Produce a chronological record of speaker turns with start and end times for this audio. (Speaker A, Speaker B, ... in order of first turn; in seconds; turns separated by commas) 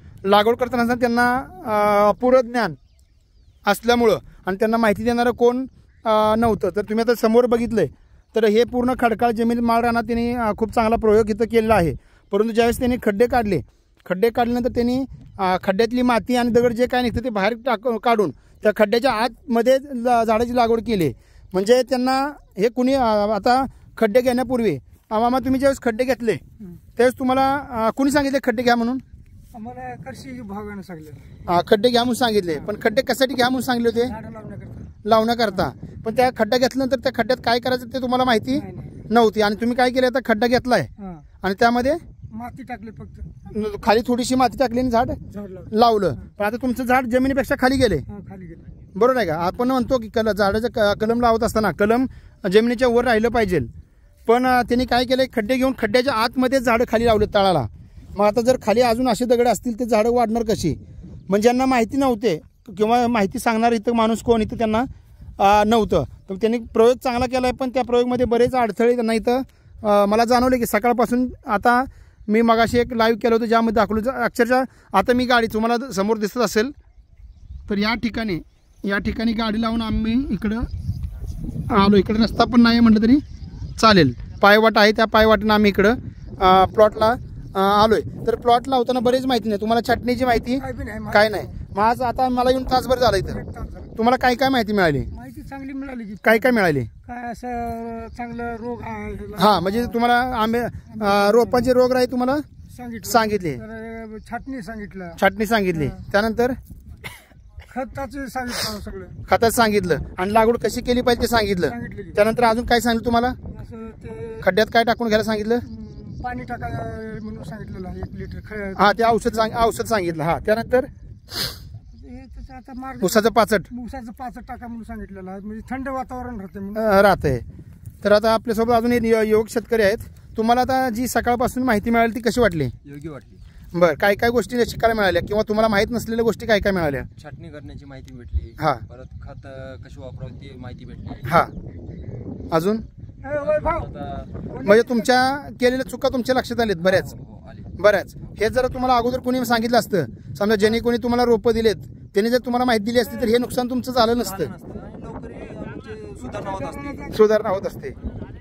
Speaker A: 0.2-2.8, Speaker A: 3.6-26.4, Speaker A: 26.9-29.0, Speaker B: 29.5-31.4, Speaker A: 31.5-34.1, Speaker B: 34.0-34.9, Speaker A: 35.0-40.9, Speaker B: 38.5-39.0, Speaker B: 41.0-41.2, Speaker A: 41.4-42.0, Speaker B: 42.3-43.3, Speaker A: 43.5-45.2, Speaker B: 45.3-45.7, Speaker A: 45.7-48.0, Speaker B: 48.1-48.6, Speaker A: 48.9-53.7, Speaker A: 54.2-60.8, Speaker A: 61.3-76.7, Speaker A: 77.7-80.7, Speaker A: 81.7-83.2, Speaker A: 83.8-93.4, Speaker B: 90.6-91.5, Speaker B: 93.3-93.9, Speaker A: 94.0-95.1, Speaker B: 95.1-96.5, Speaker A: 96.2-96.9, Speaker B: 97.0-100.0, Speaker A: 99.4-102.4, Speaker B: 100.9-101.8, Speaker B: 102.7-105.2, Speaker A: 103.0-103.6, Speaker A: 105.2-106.5, Speaker B: 105.7-106.0, Speaker B: 107.7-109.2, Speaker A: 109.3-113.3, Speaker B: 111.7-112.2, Speaker B: 113.5-114.5, Speaker A: 114.4-115.6, Speaker B: 115.6-119.2, Speaker A: 118.8-120.9, Speaker B: 121.9-127.0, Speaker A: 123.0-123.7, Speaker A: 126.8-127.4, Speaker A: 128.0-132.7, Speaker C: 132.8-133.4, Speaker A: 133.7-137.1, Speaker C: 137.2-141.4, Speaker A: 141.2-141.5, Speaker A: 142.5-142.8, Speaker B: 143.2-143.9, Speaker C: 143.3-144.4, Speaker B: 144.5-145.2, Speaker A: 144.6-147.1, Speaker C: 146.8-147.8, Speaker A: 147.8-154.5, Speaker B: 153.0-153.4, Speaker C: 154.1-157.1, Speaker B: 156.2-157.2, Speaker A: 157.1-157.9